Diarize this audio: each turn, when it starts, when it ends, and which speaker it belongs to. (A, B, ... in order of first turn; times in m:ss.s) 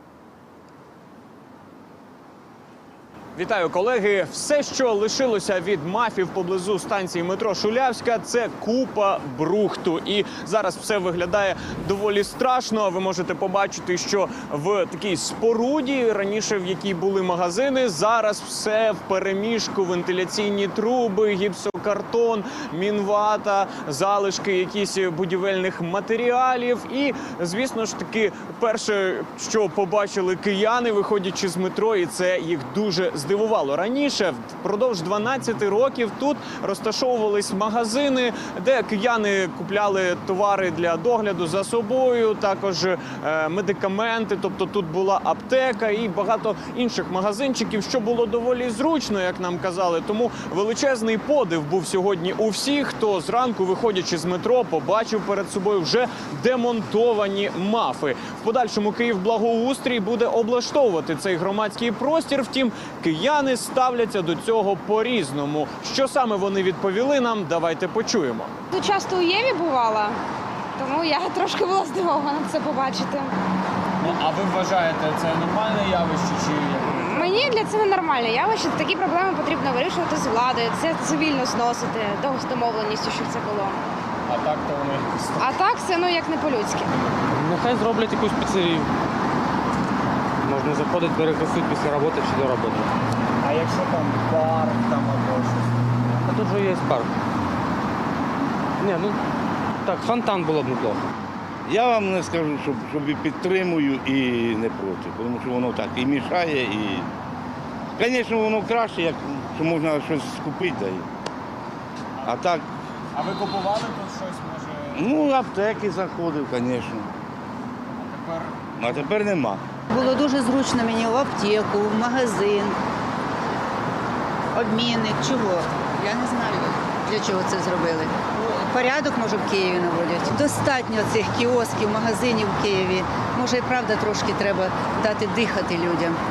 0:03.4-1:08.5 A
1:08.7-1:10.2 B
1:10.8-1:13.3 B
1:14.0-1:17.4 A
1:16.9-1:23.8 B
1:24.3-1:25.4 A
1:25.4-1:26.9 B
1:27.3-1:28.9 C
1:30.4-1:32.9 C
1:33.4-1:35.7 A
1:36.2-1:37.1 C
1:38.8-1:39.2 C
1:39.8-1:41.0 C
1:41.7-1:47.1 D
1:48.0-1:51.0 D
1:52.2-1:52.6 A
1:52.2-1:52.6 D
1:53.1-1:55.1 A
1:54.9-1:57.1 D
1:57.9-1:58.6 A
1:58.8-1:59.6 D
1:59.9-2:02.8 E
2:04.5-2:16.2 E